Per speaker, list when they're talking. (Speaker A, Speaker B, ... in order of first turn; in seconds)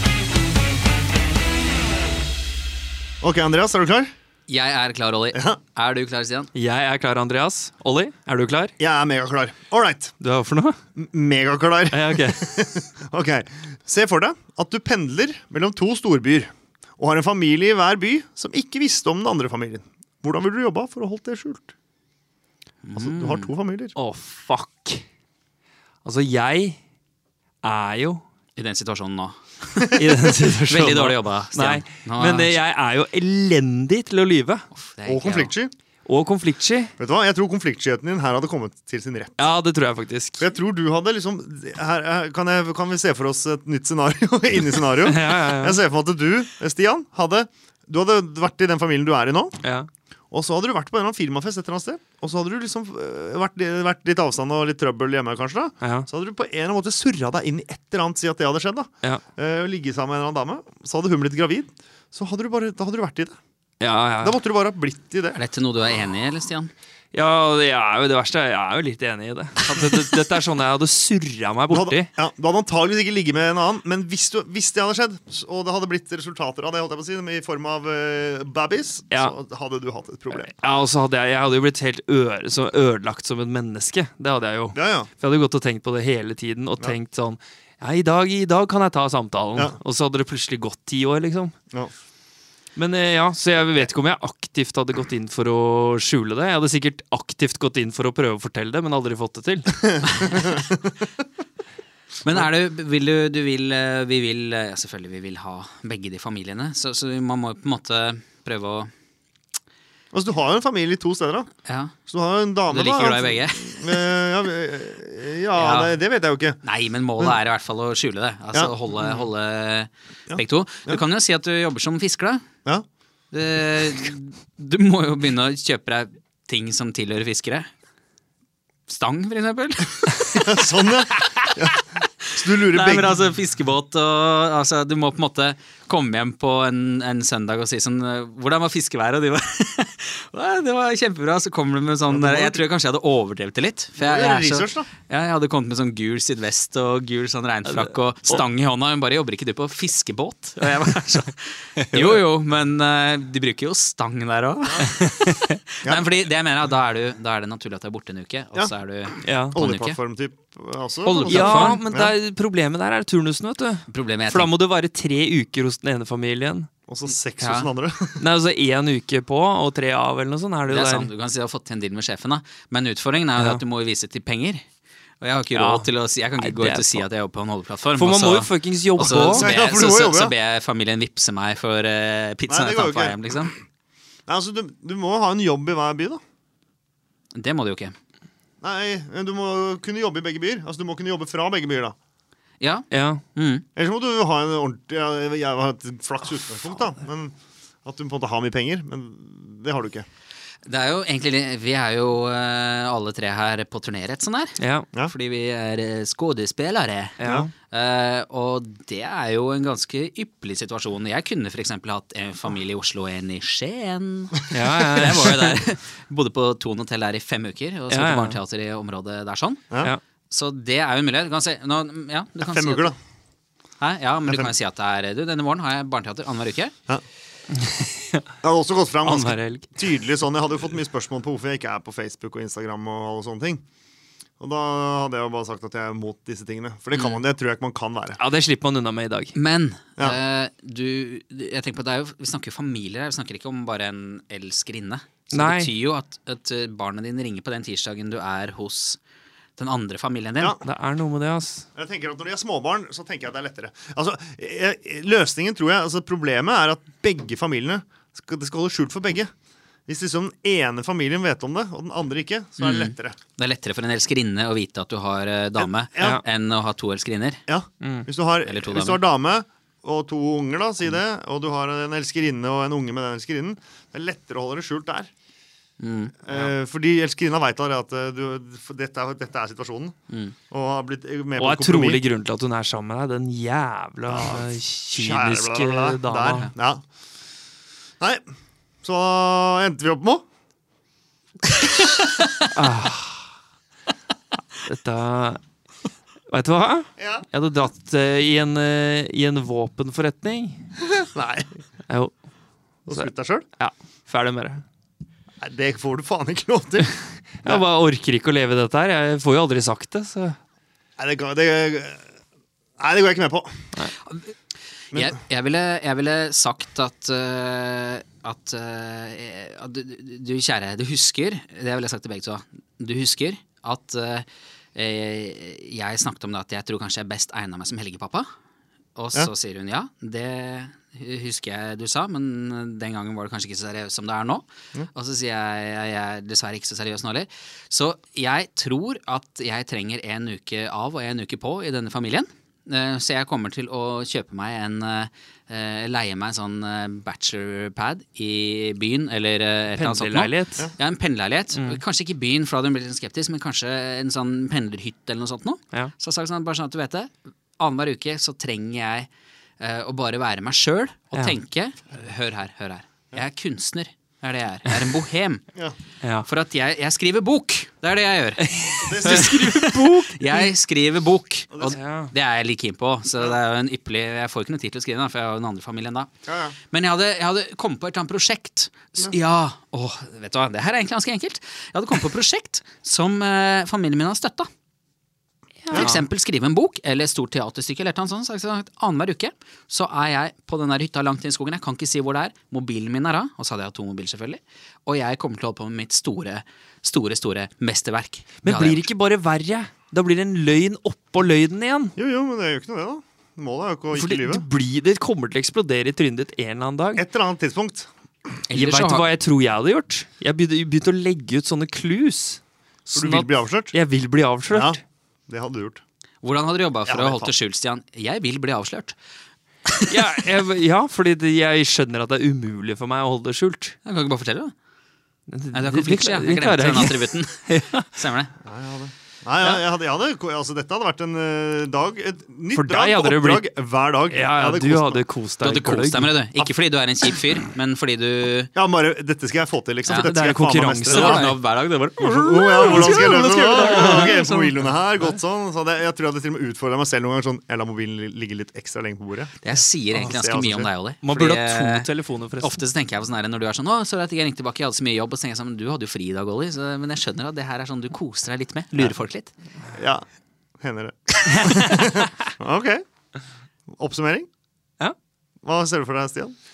Speaker A: 3.2-4.1, 5.3-5.6, 8.8-10.1, 11.0-21.7, 22.9-23.9, 35.0-35.7, 37.0-39.4, 40.4-49.6, 50.3-63.4, 64.2-65.4, 71.7-80.5, 84.7-85.1, 100.3-100.9, 110.1-111.5, 112.1-116.6, 118.5-119.3, 120.3-121.0, 130.4-133.2, 142.1-142.7, 144.0-144.9, 159.5-162.1, 166.9-168.2, 179.0-180.3, 182.5-183.5, 184.3-186.2, 188.6-191.9, 193.8-200.1, 207.2-207.5, 222.4-223.0, 228.4-233.6, 234.4-238.2, 251.8-259.3, 259.9-263.2, 265.6-266.2, 267.5-275.1, 276.2-279.9, 280.5-282.0, 284.1-286.8, 288.8-290.2, 297.0-297.2, 300.8-301.6, 302.9-303.5, 305.4-307.6, 311.0-312.1, 312.8-313.7, 368.7-369.5, 371.5-371.8, 376.3-376.6, 385.7-386.0, 402.0-404.4, 407.0-407.9, 412.9-413.8, 414.5-415.8, 416.9-417.3, 428.4-435.0, 438.6-441.3, 442.0-449.3, 450.0-450.7, 459.8-460.0, 460.6-462.8, 463.8-464.3, 465.4-466.3
Speaker B: 4.5-6.5, 22.8-23.5, 28.6-30.0, 30.7-32.6, 34.7-35.5, 65.3-66.7, 102.2-108.9, 111.7-112.0, 112.7-114.2, 115.5-116.0, 116.6-122.5, 123.3-127.7, 128.9-130.8, 132.6-160.0, 161.1-161.8, 163.9-164.5, 167.4-167.7, 170.7-174.6, 175.2-183.5, 187.3-187.9, 192.6-193.7, 200.7-219.7, 220.3-222.9, 223.8-226.7, 236.9-237.2, 239.3-249.0, 249.6-250.6, 262.6-267.4, 268.4-269.0, 275.8-276.2, 280.1-280.4, 314.9-328.3, 329.0-365.4, 366.2-376.1, 376.6-384.5, 385.7-398.8, 408.5-409.1, 416.2-419.0, 419.7-419.9, 423.8-424.5, 425.5-428.3, 435.4-438.5, 440.9-444.1, 449.4-451.9, 452.4-459.3
Speaker C: 6.5-8.7, 10.2-10.8, 11.9-12.8, 24.0-25.0, 26.1-26.8, 27.6-28.2, 29.9-34.6, 36.1-36.9, 39.4-40.4, 45.0-45.8, 49.6-49.9, 63.8-64.4, 67.1-72.1, 80.3-91.5, 92.8-100.3, 159.2-159.6, 161.1-166.7, 168.2-171.1, 173.4-173.6, 175.5-177.1, 178.0-179.5, 192.9-193.2, 204.6-204.9, 207.2-207.5, 214.5-215.6, 217.9-218.4, 227.6-228.3, 229.0-229.8, 238.2-239.3, 245.3-245.7, 250.6-251.7, 267.8-268.1, 281.4-286.5, 292.5-293.3, 294.6-295.4, 296.3-300.6, 301.9-302.1, 302.9-304.6, 307.4-310.4, 349.8-350.6, 351.5-351.8, 368.4-370.5, 371.7-372.1, 385.6-386.0, 398.4-401.9, 403.9-407.0, 408.5-414.8, 419.9-423.8, 425.3-427.9, 432.5-433.5, 434.1-436.1, 439.9-441.4, 442.3-445.2, 451.0-452.6, 461.3-462.2